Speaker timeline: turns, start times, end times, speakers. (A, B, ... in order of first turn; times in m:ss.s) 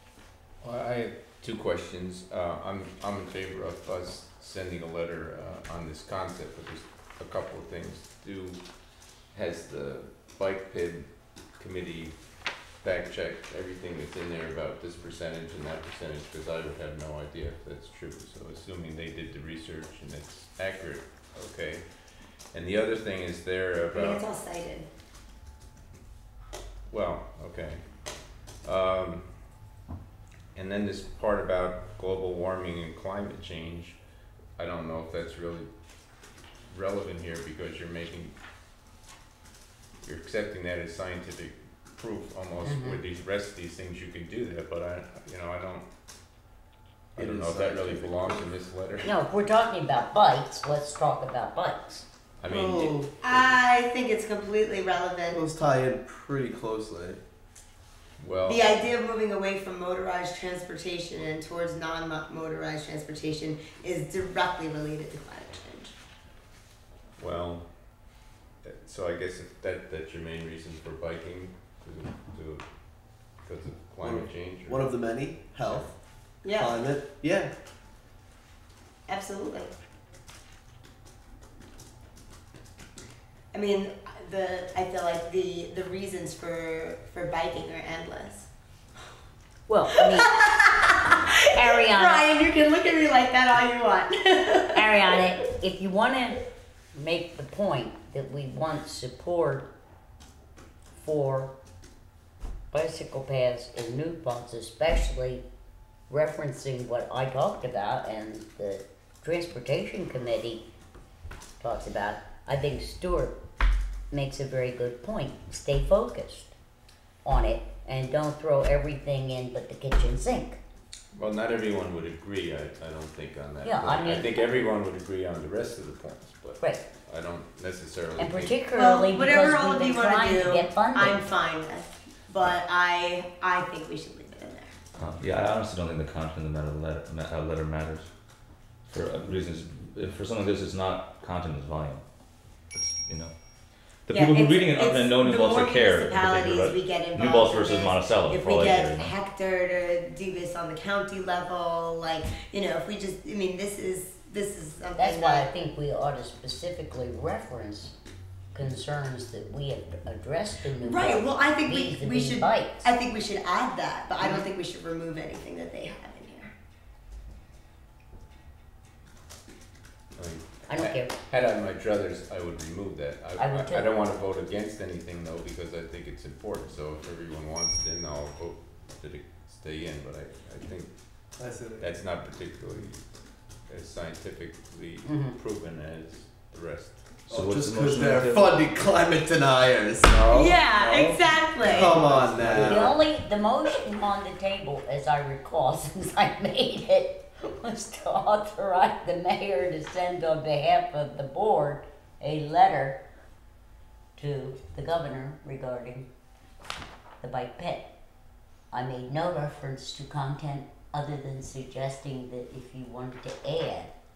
0:00.6-0:08.6 A
0:09.3-0:12.2 A
0:12.8-0:21.8 A
0:22.5-0:24.2 A
0:23.9-0:24.9 B
0:26.9-0:27.8 A
0:28.6-0:29.3 A
0:30.5-0:34.0 A
0:34.6-0:35.7 A
0:36.7-0:38.3 A
0:40.0-0:45.8 A
0:42.6-0:43.0 C
0:47.1-0:49.1 A
0:47.2-0:48.5 D
0:49.0-0:52.0 C
0:52.4-0:53.0 A
0:52.5-0:53.1 D
0:53.2-0:55.4 B
0:55.3-0:57.2 D
0:58.2-0:58.7 A
0:58.4-1:05.9 B
1:07.2-1:07.7 A
1:08.6-1:12.6 A
1:13.4-1:14.9 A
1:14.0-1:15.9 D
1:16.4-1:16.8 B
1:16.4-1:17.5 D
1:19.1-1:19.7 B
1:23.5-1:28.5 B
1:29.7-1:30.4 C
1:29.9-1:35.0 B
1:31.5-1:32.3 C
1:34.7-1:36.4 C
1:36.9-1:39.7 C
1:40.9-1:41.5 C
1:42.7-1:45.4 C
1:46.1-1:50.6 C
1:51.6-1:53.4 C
1:54.1-1:56.5 C
1:57.2-2:00.6 C
2:01.1-2:08.6 A
2:03.6-2:04.4 C
2:08.2-2:11.2 C
2:08.7-2:14.7 B
2:14.9-2:18.1 E
2:18.9-2:22.0 E
2:22.7-2:23.3 E
2:24.0-2:29.1 E
2:24.1-2:35.5 B
2:35.0-2:37.9 C
2:38.5-2:42.9 C
2:40.8-2:46.5 B
2:50.2-3:00.9 A
2:50.7-2:51.1 C
2:53.4-2:53.9 C
3:01.4-3:01.9 D
3:01.8-3:03.0 A
3:03.7-3:07.2 A
3:05.0-3:05.4 C
3:07.3-3:08.6 E
3:07.3-3:13.0 D
3:10.3-3:12.1 B
3:11.8-3:12.8 A
3:12.6-3:23.0 C
3:24.2-3:26.0 C
3:27.2-3:27.9 C
3:28.7-3:33.9 C